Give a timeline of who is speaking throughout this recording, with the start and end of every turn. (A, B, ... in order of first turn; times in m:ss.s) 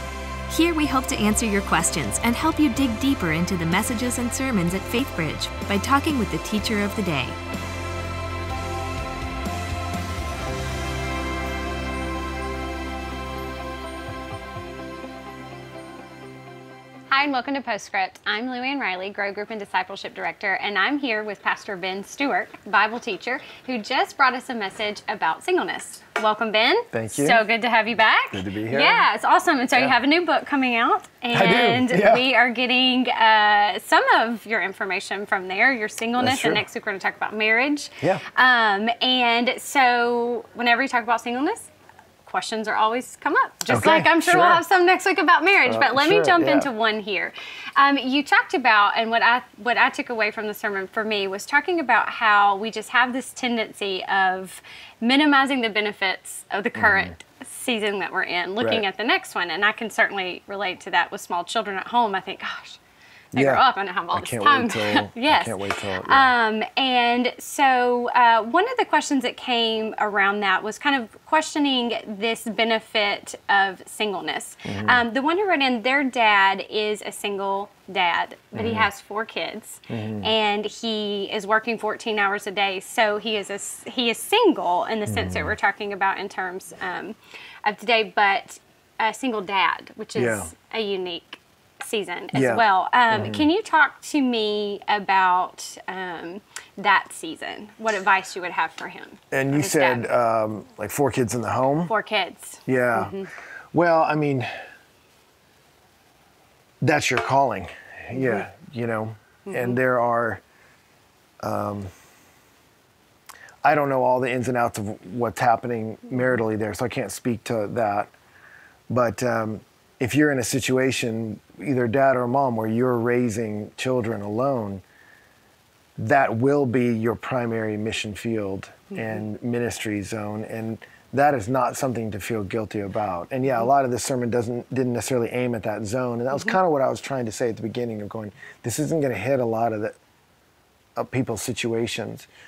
0:00.5-0:07.3 A
0:17.1-0:41.7 B
0:26.9-0:27.4 C
0:28.3-0:29.1 C
0:31.3-0:32.3 C
0:36.2-0:36.7 C
0:42.2-1:02.8 B
0:43.7-0:44.6 C
0:45.6-0:46.7 C
0:56.8-0:57.2 C
1:03.3-1:06.3 C
1:03.3-1:40.1 B
1:14.7-1:15.0 C
1:18.5-1:18.9 C
1:19.9-1:20.3 C
1:25.0-1:25.6 C
1:30.1-1:30.5 C
1:32.3-1:33.5 C
1:39.3-1:41.9 C
1:41.8-1:43.3 B
1:42.7-1:44.5 C
1:46.8-1:50.4 C
1:49.5-1:49.8 B
1:51.4-1:51.9 C
1:53.6-1:58.1 C
1:58.9-2:04.8 C
2:06.0-2:20.0 C
2:21.0-2:22.3 C